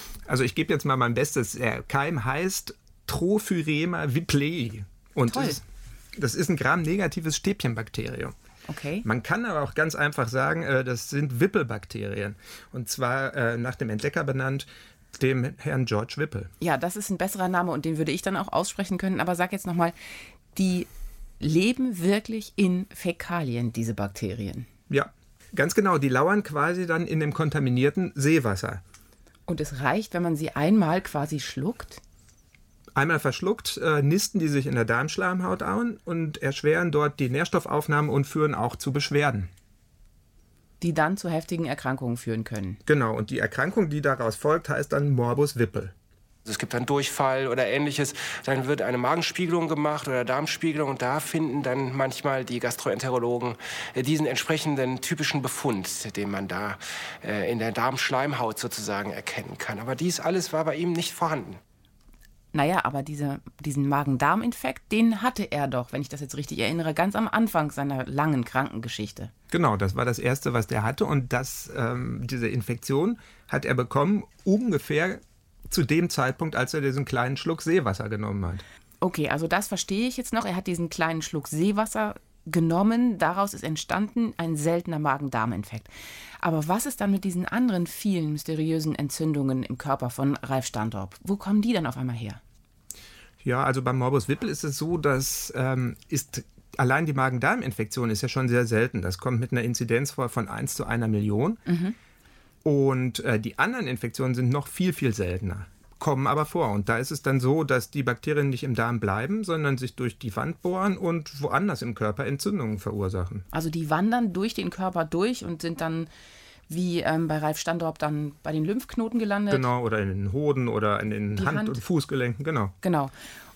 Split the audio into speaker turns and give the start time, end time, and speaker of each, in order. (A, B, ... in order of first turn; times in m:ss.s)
0:00.3-0:05.6 A
0:05.3-0:05.6 B
0:06.1-0:08.4 A
0:08.7-0:09.1 B
0:09.0-0:16.5 A
0:16.6-0:20.0 B
0:20.6-0:20.9 B
0:21.4-0:24.7 B
0:24.9-0:28.8 A
0:29.5-0:32.0 B
0:33.0-0:39.5 A
0:40.8-0:42.8 B
0:42.9-0:45.9 A
0:46.4-1:01.6 C
1:02.5-1:09.3 B
1:09.5-1:18.6 A
1:19.0-1:25.9 B
1:26.4-1:32.4 B
1:33.4-1:41.6 A
1:41.7-1:42.0 B
1:42.6-1:53.5 A
1:53.5-1:56.1 B
1:56.7-1:59.7 B
1:59.5-2:02.7 A
2:01.4-2:01.8 B
2:02.8-2:03.1 B